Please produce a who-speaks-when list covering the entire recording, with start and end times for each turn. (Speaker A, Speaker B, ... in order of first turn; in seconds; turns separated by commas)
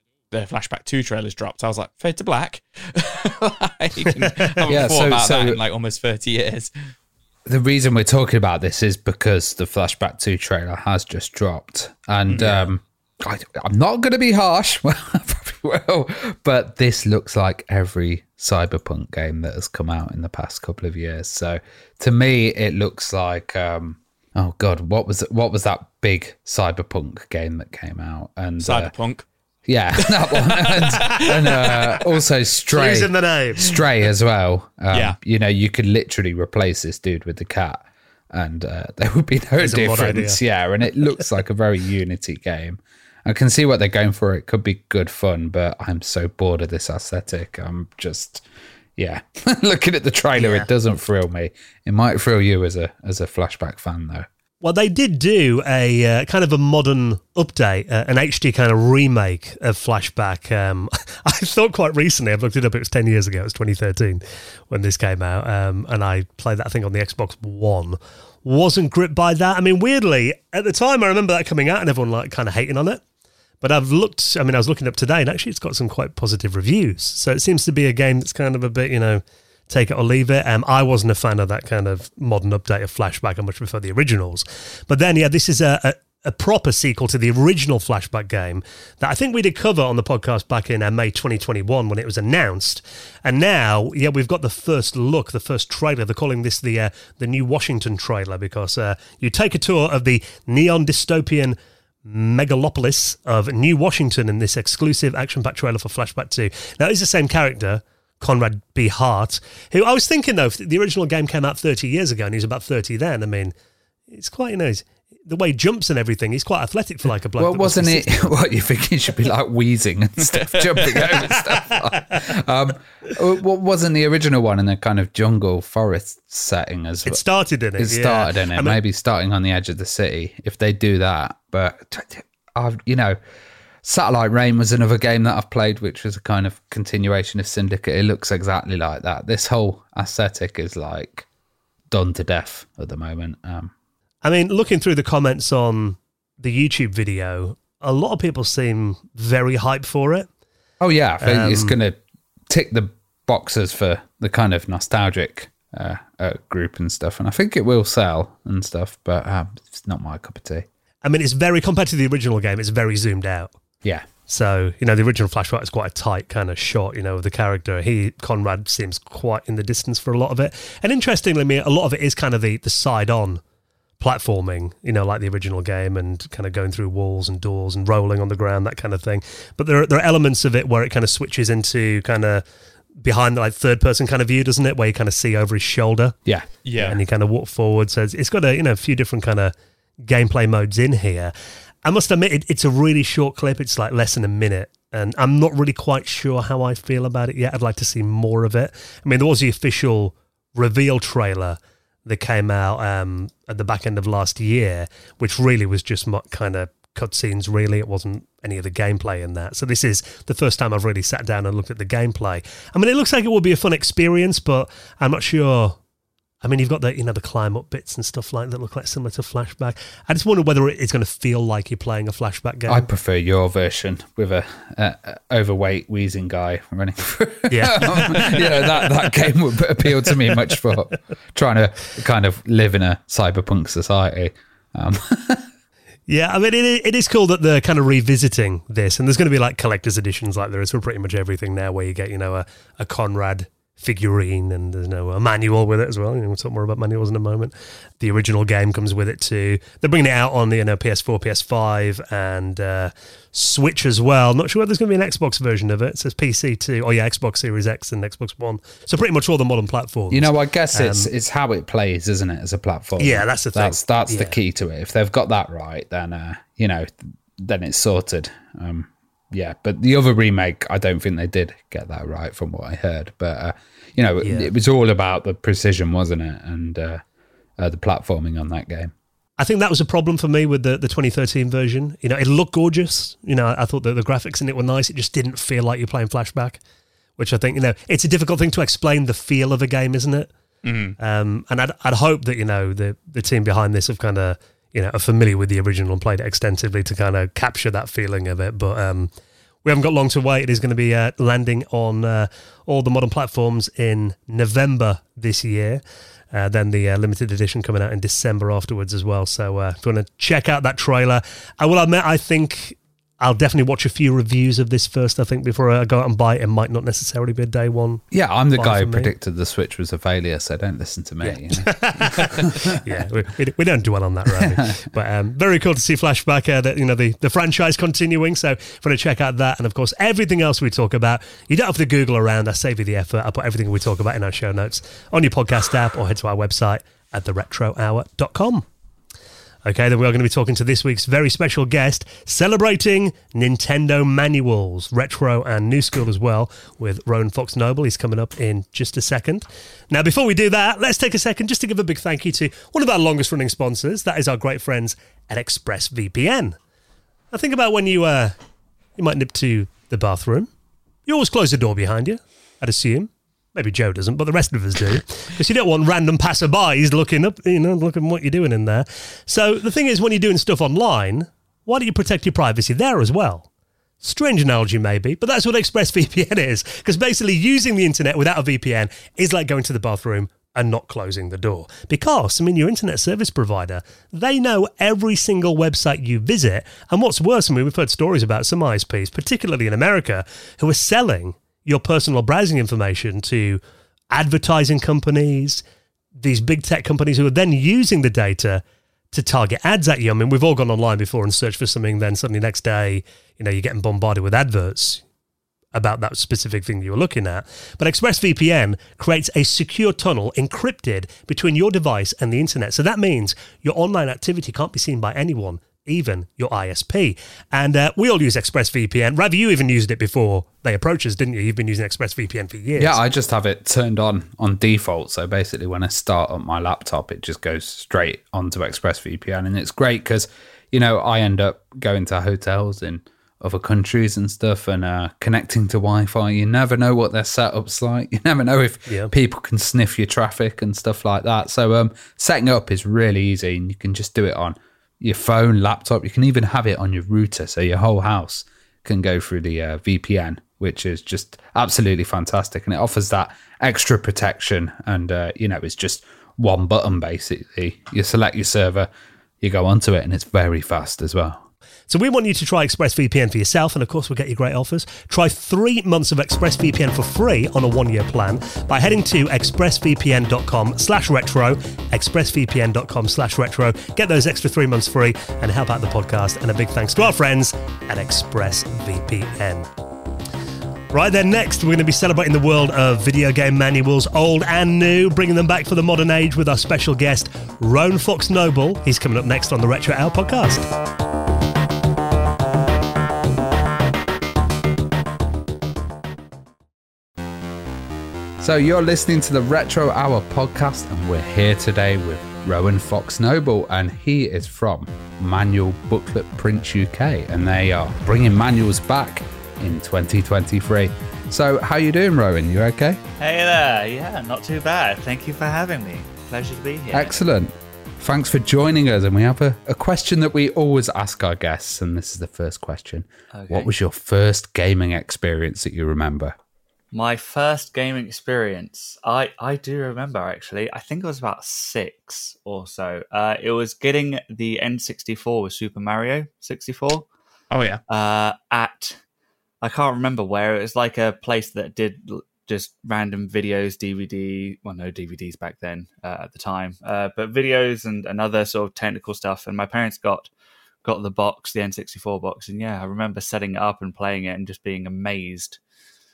Speaker A: 0.3-6.7, Speaker B: 4.7-5.6, Speaker B: 7.5-28.9, Speaker A: 12.3-12.6, Speaker A: 28.6-29.3, Speaker B: 29.7-48.5, Speaker A: 30.0-32.0, Speaker C: 32.7-33.7, Speaker A: 34.9-35.2, Speaker C: 39.6-40.4, Speaker B: 49.0-54.3, Speaker C: 50.4-50.7, Speaker C: 54.6-73.0, Speaker C: 73.6-113.5, Speaker C: 114.1-118.4, Speaker B: 117.4-127.2, Speaker A: 120.2-121.2, Speaker C: 127.0-128.8, Speaker B: 127.8-133.2, Speaker B: 133.8-141.3, Speaker B: 141.9-143.7, Speaker C: 144.2-150.3, Speaker B: 150.8-152.0, Speaker C: 151.2-151.8, Speaker B: 152.5-160.7, Speaker C: 161.0-163.5, Speaker C: 164.3-173.4, Speaker C: 174.0-182.4, Speaker C: 183.0-186.2, Speaker A: 186.6-187.0, Speaker C: 186.8-191.3, Speaker C: 191.8-215.8, Speaker C: 216.4-222.9, Speaker B: 222.7-235.5, Speaker C: 227.5-228.9, Speaker C: 230.1-230.4, Speaker C: 236.1-261.1, Speaker B: 260.1-277.0, Speaker C: 263.0-264.4, Speaker C: 274.2-274.5, Speaker B: 277.6-278.9, Speaker C: 279.4-286.6, Speaker C: 287.2-290.3, Speaker A: 290.6-290.9, Speaker C: 291.0-299.1, Speaker C: 299.6-319.1, Speaker B: 318.1-322.8, Speaker C: 321.2-338.6, Speaker C: 339.6-356.6, Speaker C: 357.3-358.4, Speaker C: 359.0-360.5, Speaker C: 361.1-373.5, Speaker C: 374.0-395.6, Speaker C: 396.2-405.0, Speaker C: 405.7-423.0, Speaker B: 422.8-458.9, Speaker C: 438.9-439.1, Speaker B: 459.4-461.4, Speaker C: 461.9-479.7, Speaker C: 480.9-490.7, Speaker B: 498.4-513.0, Speaker D: 513.2-517.1, Speaker B: 516.9-526.3, Speaker D: 523.3-523.7, Speaker D: 526.9-537.1, Speaker A: 537.5-537.8, Speaker D: 537.9-539.0, Speaker D: 539.6-550.3, Speaker D: 550.8-555.6